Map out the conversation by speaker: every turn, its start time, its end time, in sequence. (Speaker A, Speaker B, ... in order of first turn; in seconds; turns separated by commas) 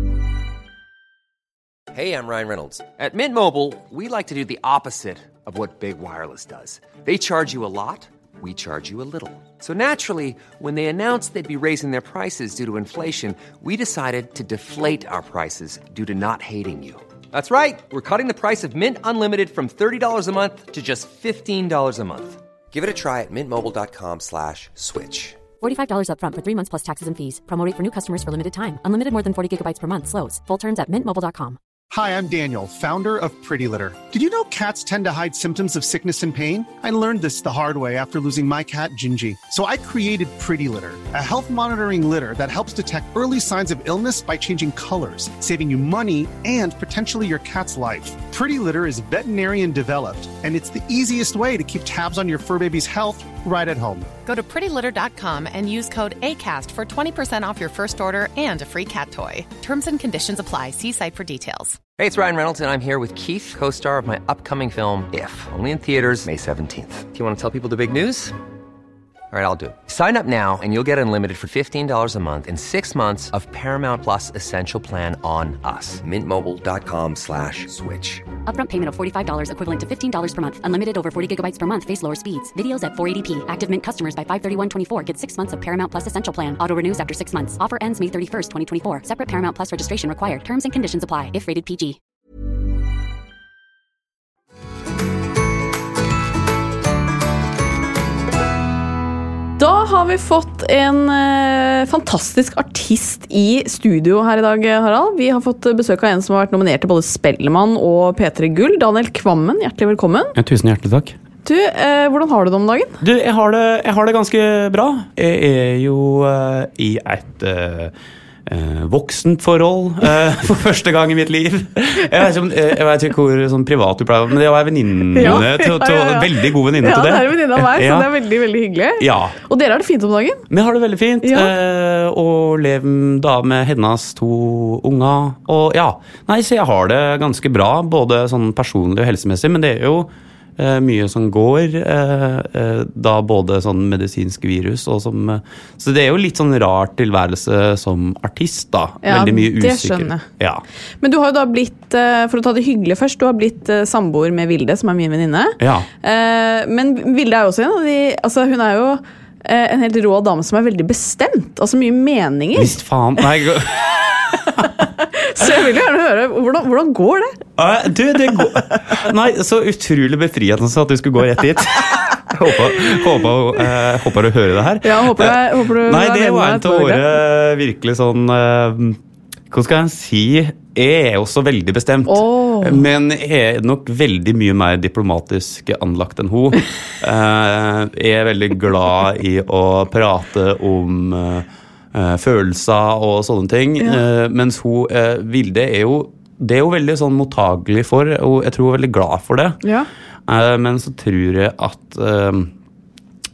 Speaker A: 1.9-25.4, Speaker B: 25.6-31.6, Speaker C: 31.9-54.1, Speaker D: 54.2-61.8, Speaker A: 62.0-68.3, Speaker A: 69.3-78.2, Speaker B: 78.5-92.0, Speaker E: 99.6-110.3, Speaker F: 110.3-111.2, Speaker E: 111.4-113.0, Speaker F: 113.0-117.9, Speaker F: 118.5-128.1, Speaker E: 125.1-130.4, Speaker F: 129.0-129.3, Speaker F: 130.5-150.6, Speaker E: 131.2-131.5, Speaker E: 149.0-150.2, Speaker E: 151.0-162.8, Speaker F: 155.6-155.9, Speaker F: 162.5-163.8, Speaker E: 165.0-167.3, Speaker F: 167.6-179.0, Speaker E: 174.8-177.1, Speaker F: 179.5-199.6, Speaker E: 182.1-182.8, Speaker E: 199.6-199.9, Speaker F: 200.3-202.5